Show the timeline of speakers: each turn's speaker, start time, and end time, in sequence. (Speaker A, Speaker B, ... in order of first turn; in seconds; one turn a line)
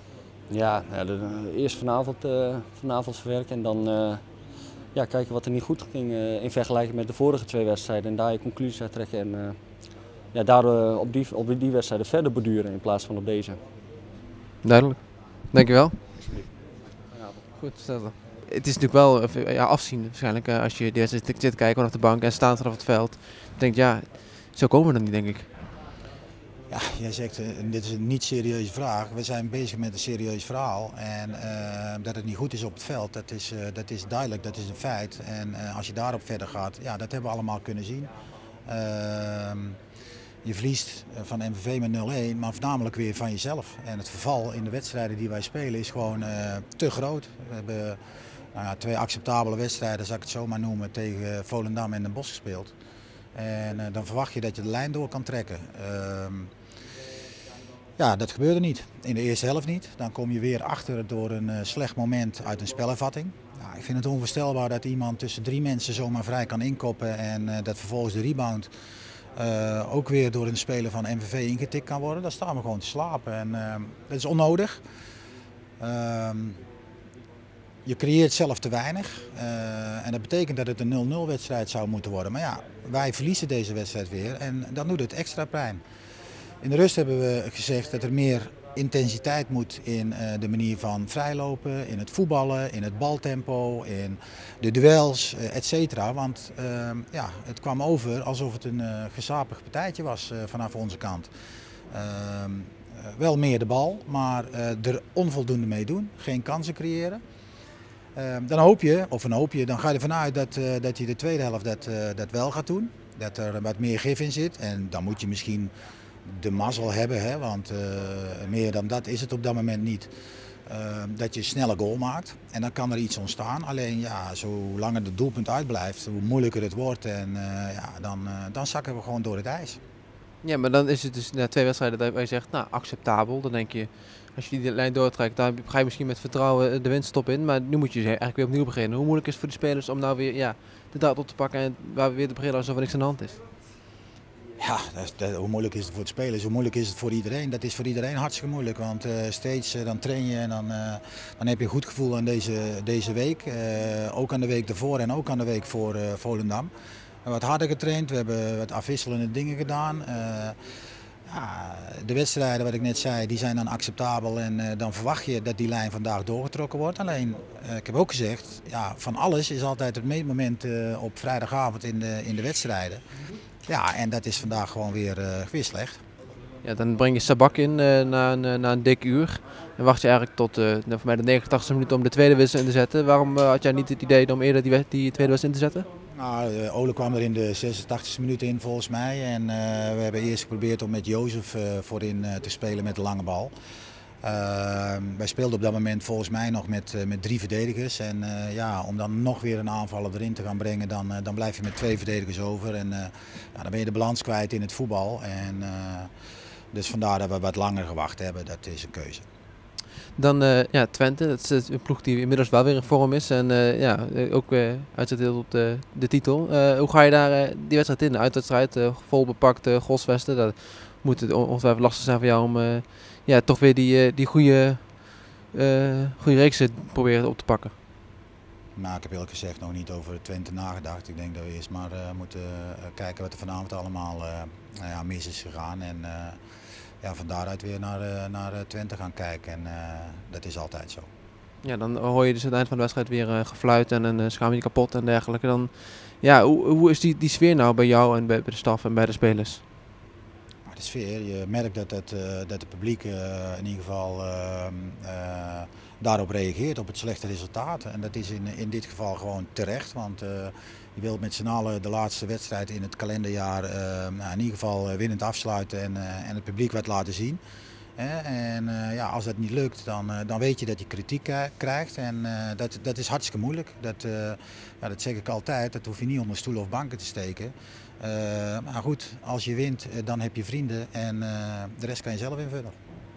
Speaker A: 0.5-13.6
Speaker B: 14.6-16.2
Speaker A: 16.2-16.6
Speaker A: 17.1-17.4
Speaker B: 17.6-25.7
Speaker C: 26.7-38.1
Speaker C: 38.7-39.8
Speaker C: 40.4-48.0
Speaker C: 48.5-52.7
Speaker C: 53.4-56.5
Speaker C: 58.0-68.7
Speaker C: 69.4-74.8
Speaker C: 75.8-76.6
Speaker C: 77.9-85.8
Speaker C: 86.6-101.3
Speaker C: 101.9-107.2
Speaker C: 108.2-115.7
Speaker C: 116.3-120.1
Speaker C: 120.7-129.8
Speaker B: 130.4-143.4
Speaker C: 144.6-156.7
Speaker C: 157.2-160.6
Speaker C: 161.3-173.0
Speaker C: 173.7-176.0
Speaker B: 176.6-185.9
Speaker C: 186.1-193.5
Speaker C: 194.2-206.1
Speaker C: 206.7-209.2
Speaker B: 210.2-227.7
Speaker C: 228.8-236.4
Speaker C: 237.0-241.1
Speaker B: 241.6-249.6
Speaker C: 250.7-267.4
Speaker C: 268.0-282.8